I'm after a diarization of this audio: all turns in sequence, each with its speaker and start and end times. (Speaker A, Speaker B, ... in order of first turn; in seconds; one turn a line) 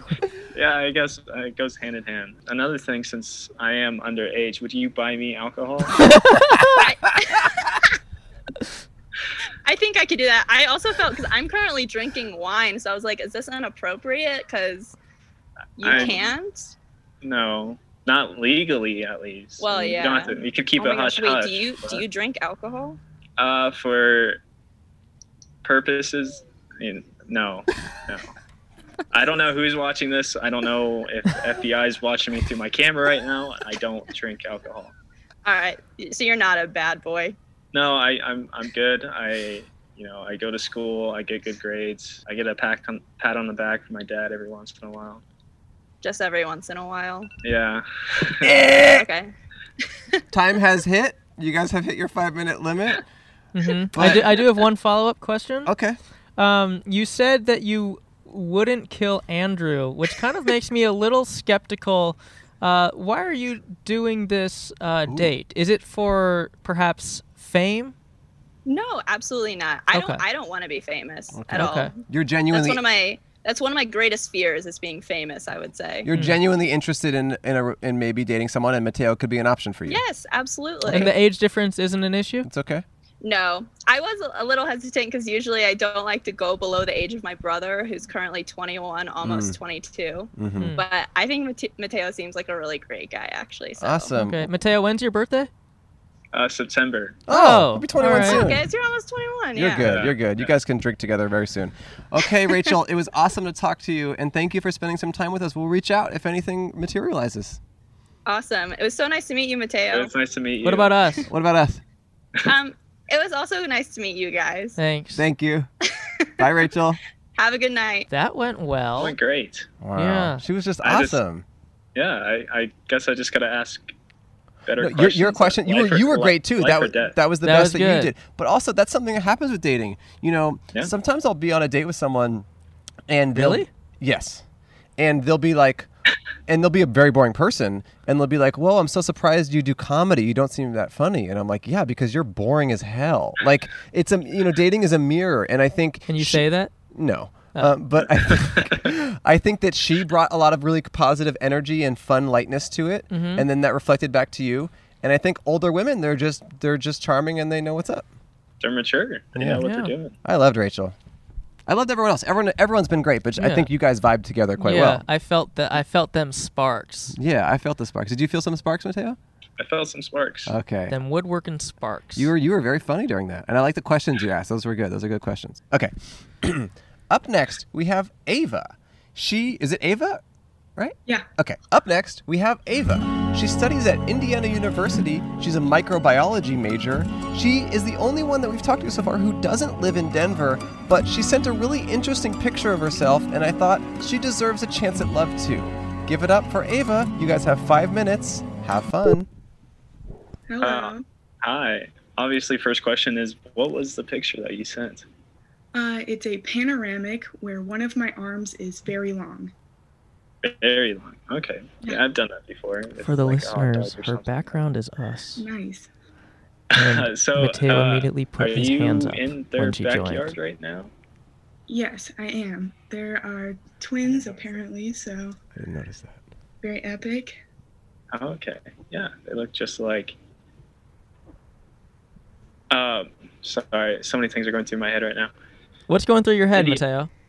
Speaker A: 0.5-5.9
Speaker B: 6.7-7.8
Speaker B: 9.6-14.9
Speaker B: 15.8-16.7
Speaker A: 15.8-16.3
Speaker A: 17.2-22.0
Speaker B: 19.6-23.0
Speaker A: 23.4-24.4
Speaker A: 25.6-28.3
Speaker A: 29.1-34.9
Speaker B: 35.4-37.4
Speaker A: 37.7-45.2
Speaker B: 46.0-47.3
Speaker A: 47.4-48.5
Speaker C: 48.4-49.0
Speaker B: 48.8-49.3
Speaker C: 50.3-53.0
Speaker D: 53.5-55.7
Speaker C: 53.9-54.2
Speaker C: 55.6-56.0
Speaker D: 56.4-67.9
Speaker C: 65.1-65.3
Speaker B: 68.7-76.1
Speaker D: 69.9-70.2
Speaker C: 71.3-72.8
Speaker D: 71.5-71.9
Speaker C: 76.0-80.0
Speaker D: 76.1-76.4
Speaker B: 79.9-81.1
Speaker D: 80.9-82.5
Speaker C: 82.4-82.8
Speaker B: 83.2-94.1
Speaker C: 89.2-89.6
Speaker C: 90.3-90.7
Speaker D: 90.6-90.8
Speaker C: 93.8-94.5
Speaker D: 94.2-95.5
Speaker A: 96.3-97.2
Speaker C: 97.3-98.7
Speaker D: 97.3-98.5
Speaker B: 98.1-100.0
Speaker C: 99.5-107.6
Speaker A: 99.8-100.5
Speaker B: 108.2-110.1
Speaker A: 109.9-111.1
Speaker D: 110.6-111.3
Speaker C: 111.3-111.8
Speaker B: 112.4-114.8
Speaker D: 114.8-115.2
Speaker C: 115.2-115.7
Speaker B: 116.2-116.5
Speaker C: 116.4-117.0
Speaker B: 117.4-118.1
Speaker D: 118.1-119.1
Speaker A: 119.0-119.7
Speaker C: 119.8-121.4
Speaker D: 120.0-120.4
Speaker A: 120.8-121.2
Speaker A: 121.9-123.9
Speaker A: 124.7-127.2
Speaker C: 124.8-132.4
Speaker D: 127.4-128.1
Speaker C: 133.1-134.4
Speaker D: 133.3-133.7
Speaker C: 135.0-135.9
Speaker C: 136.5-158.1
Speaker D: 146.1-146.7
Speaker D: 153.1-153.4
Speaker A: 158.6-160.1
Speaker C: 159.3-159.6
Speaker D: 159.6-159.9
Speaker C: 160.2-160.9
Speaker C: 161.7-165.0
Speaker D: 163.4-163.7
Speaker D: 164.6-167.2
Speaker C: 167.1-169.2
Speaker A: 169.6-170.5
Speaker C: 170.4-170.9
Speaker D: 170.9-172.3
Speaker C: 172.2-180.2
Speaker C: 180.8-199.3
Speaker E: 200.5-201.0
Speaker A: 200.6-205.1
Speaker E: 205.7-209.5
Speaker A: 210.4-214.6
Speaker D: 213.0-215.4
Speaker E: 215.4-215.9
Speaker A: 216.7-220.9
Speaker D: 216.7-220.3
Speaker E: 221.7-225.4
Speaker C: 225.5-226.2
Speaker E: 226.6-227.4
Speaker A: 228.1-230.1
Speaker A: 232.7-235.3
Speaker D: 235.9-237.1
Speaker A: 236.5-236.8